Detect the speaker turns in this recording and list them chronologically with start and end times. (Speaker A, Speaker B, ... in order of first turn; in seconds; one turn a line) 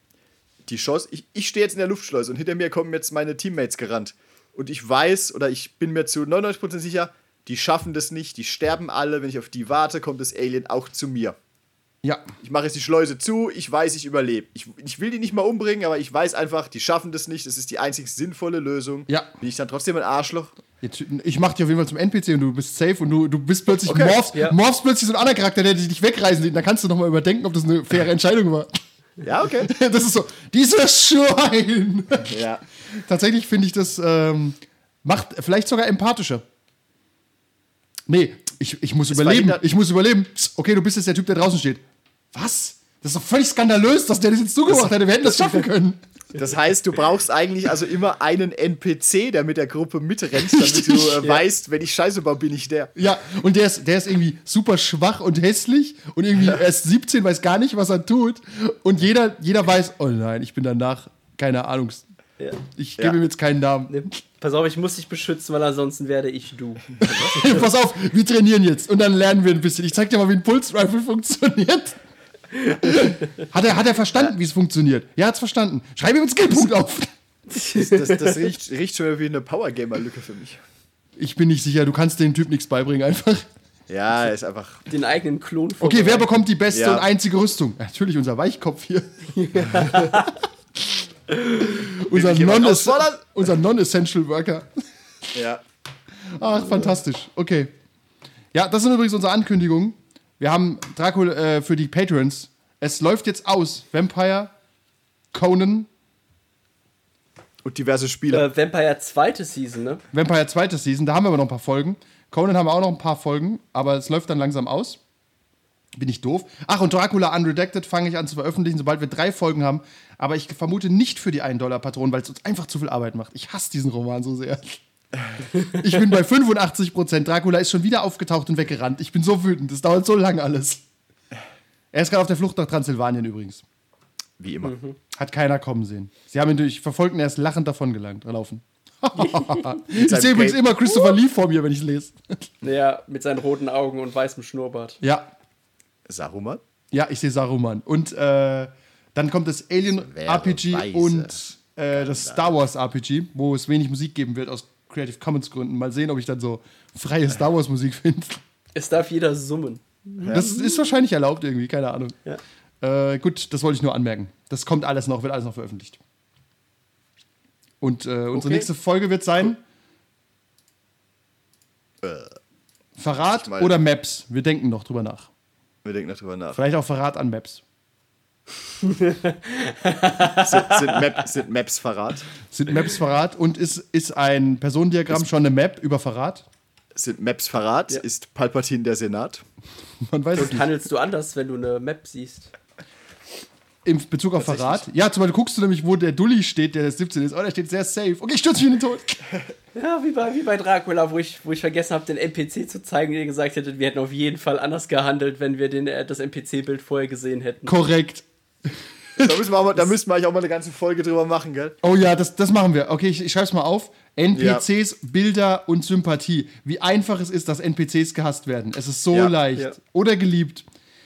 Speaker A: 0.7-11.3
Speaker B: 12.0-12.3
Speaker A: 12.4-20.5
Speaker B: 20.8-28.8
Speaker A: 23.8-24.2
Speaker A: 29.2-29.7
Speaker B: 29.6-32.4
Speaker A: 32.3-32.6
Speaker B: 32.9-36.4
Speaker B: 38.1-41.8
Speaker A: 39.1-39.6
Speaker B: 42.3-46.0
Speaker A: 44.7-45.4
Speaker A: 46.3-52.9
Speaker B: 50.3-51.2
Speaker B: 53.0-62.0
Speaker B: 62.8-64.2
Speaker C: 63.9-67.3
Speaker B: 67.0-72.0
Speaker B: 72.8-77.1
Speaker C: 77.5-78.5
Speaker A: 77.7-80.6
Speaker B: 81.2-83.4
Speaker A: 83.9-84.9
Speaker C: 84.9-86.3
Speaker B: 85.8-90.3
Speaker A: 86.7-87.0
Speaker C: 89.3-90.3
Speaker C: 91.3-91.7
Speaker B: 91.6-94.9
Speaker A: 92.1-93.2
Speaker A: 95.3-95.6
Speaker B: 96.2-97.7
Speaker B: 98.5-104.5
Speaker B: 105.3-105.9
Speaker A: 107.6-108.5
Speaker C: 108.3-110.0
Speaker B: 110.1-115.0
Speaker B: 116.0-124.8
Speaker B: 125.5-130.8
Speaker B: 131.9-133.6
Speaker A: 134.4-134.7
Speaker C: 134.6-135.0
Speaker B: 135.1-142.5
Speaker C: 139.2-139.6
Speaker A: 139.9-140.6
Speaker C: 142.6-145.0
Speaker B: 145.0-145.3
Speaker A: 146.1-146.6
Speaker B: 146.9-158.4
Speaker A: 150.0-151.4
Speaker A: 151.9-152.5
Speaker C: 158.7-160.8
Speaker B: 160.3-162.2
Speaker B: 162.8-166.0
Speaker B: 167.8-169.6
Speaker A: 172.0-172.4
Speaker B: 173.0-175.3
Speaker A: 173.3-173.8
Speaker A: 175.8-176.6
Speaker B: 176.5-177.6
Speaker C: 178.8-181.1
Speaker A: 180.2-182.3
Speaker B: 182.5-186.4
Speaker A: 186.9-189.4
Speaker B: 190.0-190.7
Speaker C: 190.3-192.5
Speaker B: 193.8-199.2
Speaker A: 194.4-194.8
Speaker C: 199.7-207.7
Speaker B: 207.7-209.4
Speaker A: 209.2-211.8
Speaker B: 211.8-220.6
Speaker A: 214.3-214.6
Speaker A: 219.1-219.3